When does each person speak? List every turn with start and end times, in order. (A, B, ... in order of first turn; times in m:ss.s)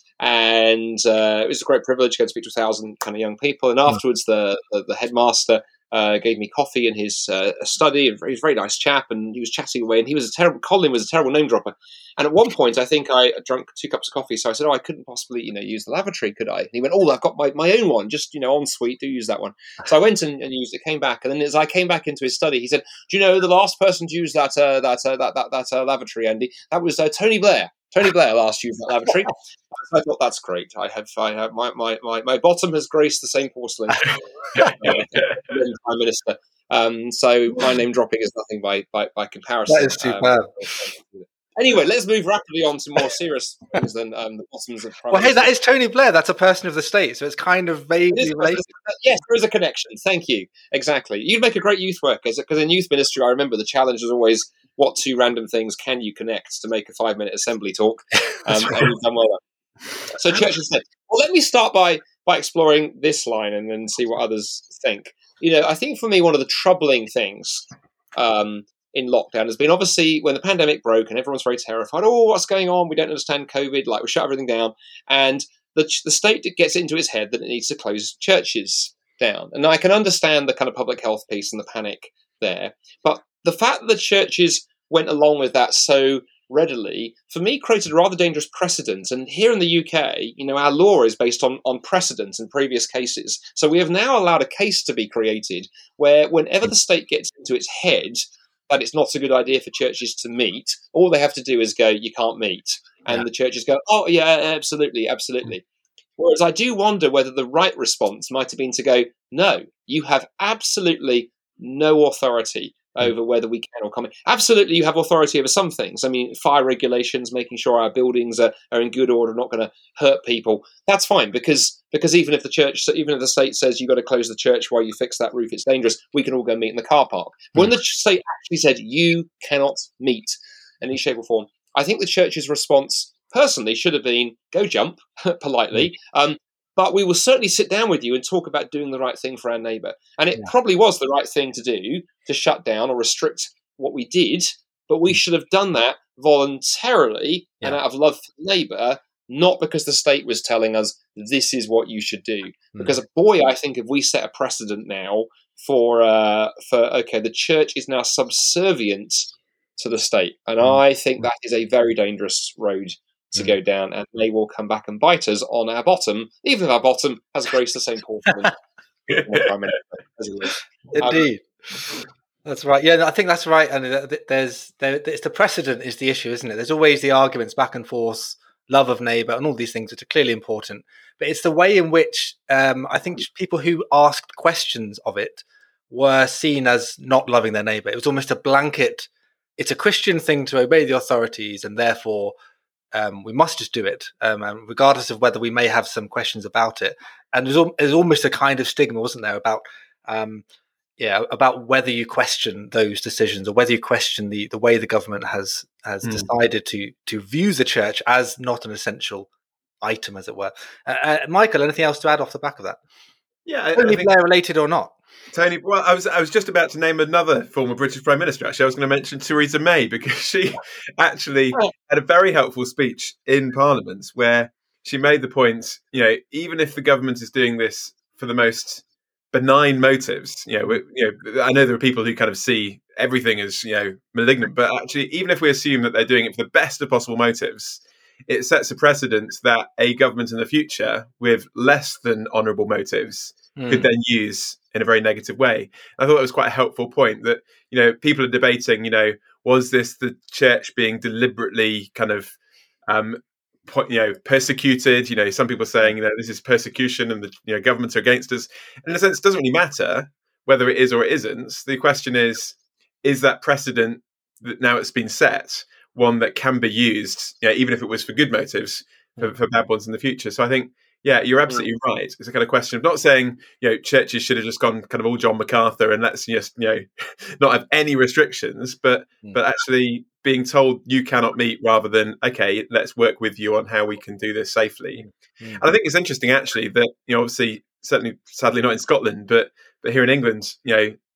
0:00.2-0:45.5 A
0:34.6-0:35.4 B
0:39.7-0:40.7 C
0:45.1-0:48.6 C
0:48.1-0:59.4 A
1:00.1-1:45.6 A
1:46.2-2:51.2 A
2:50.9-2:51.4 C
2:52.4-3:12.3 C
3:12.9-3:20.4 C
3:21.0-3:29.3 C
3:26.0-3:26.3 B
3:29.8-3:32.8 C
3:33.5-3:34.1 B
3:33.8-3:35.0 C
3:35.3-4:12.4 B
4:03.6-4:03.9 C
4:12.9-4:45.1 B
4:45.6-4:51.0 B